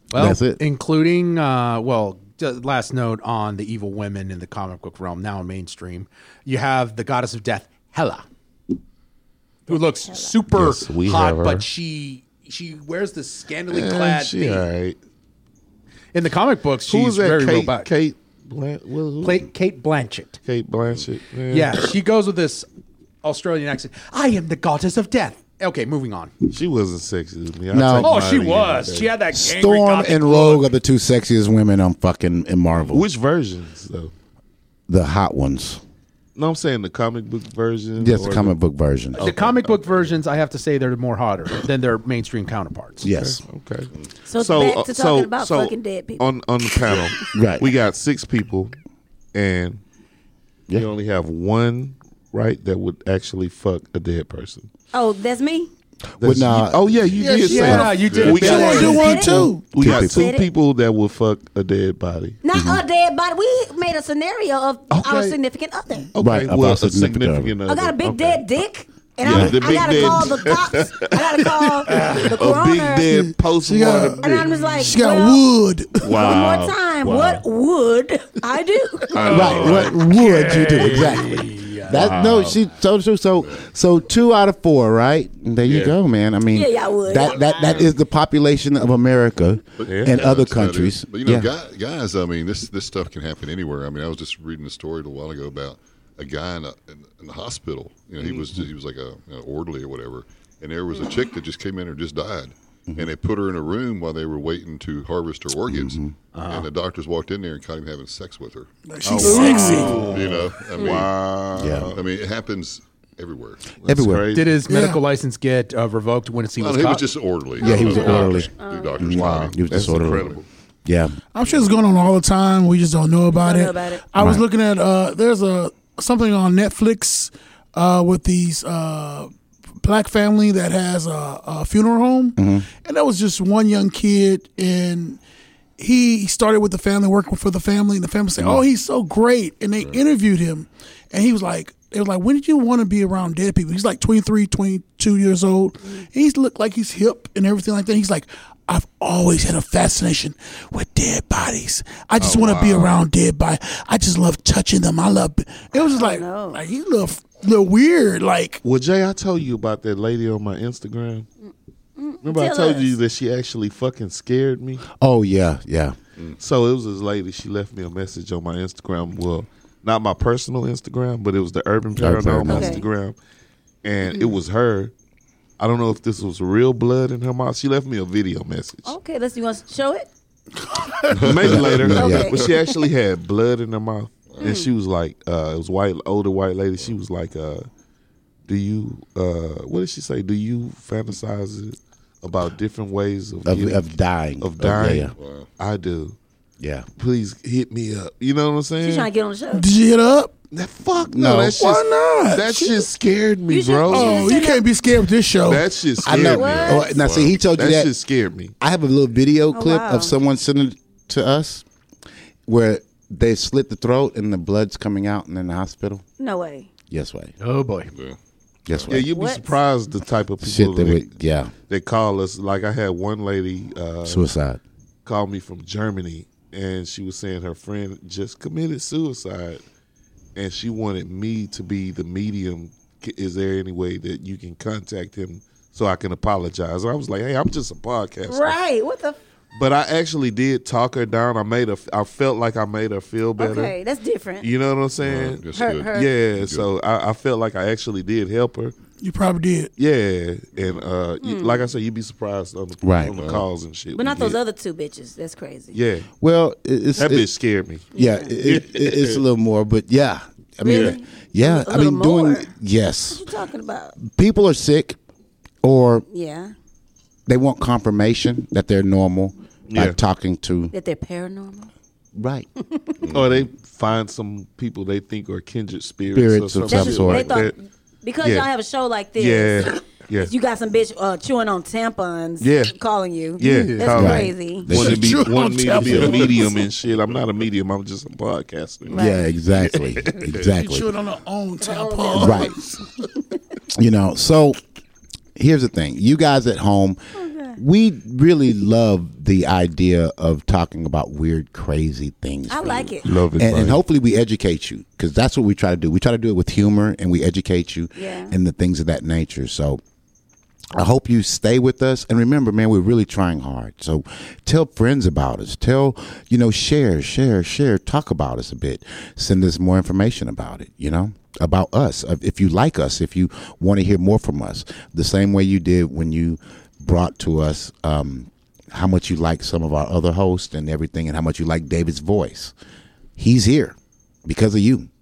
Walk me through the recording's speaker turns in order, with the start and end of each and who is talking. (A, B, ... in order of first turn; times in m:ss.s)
0:00.1-0:08.2 A
0:00.1-0:00.6 B
0:09.7-0:14.7 A
0:09.7-0:10.3 C
0:10.5-0:11.6 D
0:13.7-0:15.0 D
0:16.1-0:17.9 A
0:16.9-0:19.5 D
0:19.2-0:20.4 A
0:20.5-0:21.8 D
0:21.5-0:22.7 A
0:23.2-0:26.3 A
0:26.5-0:29.1 D
0:27.7-0:28.1 B
0:28.0-0:30.7 A
0:29.3-0:33.1 B
0:32.9-0:34.1 D
0:34.9-0:35.8 B
0:36.4-0:38.6 D
0:38.0-0:39.2 B
0:39.1-0:39.7 D
0:39.2-0:43.0 A
0:43.0-0:43.4 B
0:43.0-0:48.7 D
0:44.3-0:46.3 C
0:46.8-0:47.2 C
0:47.3-0:47.7 B
0:49.3-0:49.8 D
0:50.7-0:54.7 D
0:54.9-0:55.7 C
0:56.2-0:57.0 B
0:56.2-1:02.4 D
0:57.2-0:59.0 A
0:57.4-0:59.8 E
0:58.1-0:58.7 F
0:58.5-1:00.5 C
0:59.2-1:00.3 B
1:02.4-1:06.1 C
1:02.5-1:02.8 B
1:04.9-1:05.4 D
1:06.1-1:08.4 D
1:06.2-1:07.6 B
1:07.7-1:13.1 C
1:09.2-1:14.9 D
1:09.3-1:09.8 B
1:11.8-1:12.3 E
1:13.1-1:16.2 E
1:14.2-1:15.4 C
1:16.0-1:17.4 D
1:16.1-1:19.5 C
1:19.1-1:20.0 D
1:19.3-1:31.5 B
1:20.1-1:21.1 E
1:20.6-1:22.6 D
1:23.4-1:23.7 F
1:25.6-1:26.0 D
1:26.5-1:27.8 C
1:27.1-1:27.9 F
1:29.8-1:51.1 F
1:29.9-1:30.2 D
1:38.2-1:38.6 D
1:45.7-1:46.2 B
1:48.9-1:50.2 E
1:49.0-1:52.0 D
1:50.8-1:51.1 C
1:51.6-1:52.0 B
1:51.9-1:53.6 F
1:53.8-1:54.6 D
1:53.9-1:54.4 B
1:54.3-1:57.1 A
1:54.7-1:55.0 E
1:56.6-2:00.4 F
1:57.6-2:01.2 B
1:57.6-1:59.2 C
1:59.1-2:00.5 D
2:01.3-2:09.3 E
2:03.3-2:04.0 C
2:04.2-2:04.4 B
2:09.8-2:15.2 E
2:12.4-2:12.7 B
2:15.8-2:38.6 E
2:32.2-2:33.0 D
2:35.8-2:36.6 C
2:38.6-2:41.3 D
2:41.4-2:43.0 C
2:42.2-2:44.8 D
2:45.0-2:46.0 B
2:46.4-2:53.2 D
2:52.0-2:52.8 B
2:52.5-2:52.9 C
2:53.8-2:54.9 D
2:55.6-2:58.9 D
2:58.8-3:00.1 C
3:01.1-3:02.5 F
3:01.1-3:07.7 D
3:01.2-3:02.3 B
3:01.9-3:02.8 C
3:04.3-3:04.6 F
3:04.4-3:04.7 C
3:08.5-3:13.9 D
3:13.4-3:15.1 B
3:14.4-3:16.2 D
3:15.2-3:15.5 F
3:16.6-3:16.9 B
3:17.0-3:19.1 D
3:18.8-3:19.7 C
3:19.5-3:20.4 E
3:20.5-3:24.4 D
3:21.0-3:21.6 B
3:21.6-3:22.9 E
3:23.5-3:24.7 C
3:23.9-3:25.7 E
3:25.4-3:26.9 D
3:26.0-3:27.9 B
3:26.1-3:27.0 C
3:26.7-3:27.4 F
3:27.5-3:28.5 D
3:28.6-3:31.6 B
3:29.5-3:30.1 C
3:32.5-3:36.0 B
3:36.2-3:36.7 C
3:36.9-3:37.3 B
3:37.4-3:37.9 A
3:37.9-3:38.2 F
3:38.7-3:39.0 B
3:38.7-3:39.0 F
3:38.9-3:41.1 D
3:39.1-3:39.6 C
3:40.4-3:41.5 B
3:41.7-3:44.3 D
3:44.0-3:44.6 B
3:45.0-3:49.6 D
3:50.4-3:58.6 D
3:58.3-3:59.2 C
3:59.6-4:03.7 D
4:03.4-4:04.5 C
4:04.4-4:08.8 D
4:05.0-4:06.7 F
4:05.5-4:06.1 C
4:09.0-4:09.7 E
4:09.8-4:14.4 D
4:10.6-4:10.8 F
4:11.2-4:11.6 C
4:12.8-4:13.2 B
4:13.1-4:13.4 F
4:13.9-4:15.8 C
4:15.7-4:16.1 D
4:16.2-4:17.3 B
4:17.0-4:17.9 D
4:17.9-4:18.3 C
4:17.9-4:23.3 B
4:18.4-4:19.2 D
4:20.6-4:22.5 C
4:20.7-4:21.0 D
4:23.1-4:24.0 C
4:24.0-4:25.0 B
4:25.6-4:26.0 B
4:26.1-4:26.5 C
4:27.3-4:30.7 B
4:29.7-4:30.0 D
4:30.7-4:31.7 C
4:32.2-4:32.5 B
4:32.6-4:33.0 C
4:33.0-4:33.5 F
4:33.1-4:37.6 D
4:36.1-4:37.4 B
4:36.7-4:44.8 C
4:38.2-4:38.5 D
4:39.2-4:40.3 D
4:42.4-4:42.8 D
4:43.4-4:49.0 D
4:43.4-4:43.8 A
4:43.9-4:45.3 B
4:44.7-4:46.6 E
4:45.8-4:47.2 F
4:48.9-4:49.2 C
4:48.9-4:50.9 B
4:49.5-4:50.4 D
4:50.4-4:52.8 E
4:51.6-4:52.5 C
4:52.2-4:52.6 B
4:53.8-4:54.6 B
4:55.4-4:57.0 B
4:57.2-4:57.6 C
4:57.6-5:09.8 B
5:02.5-5:03.1 C
5:03.0-5:03.8 D
5:08.0-5:08.4 C
5:10.8-5:32.5 B
5:33.2-5:34.9 B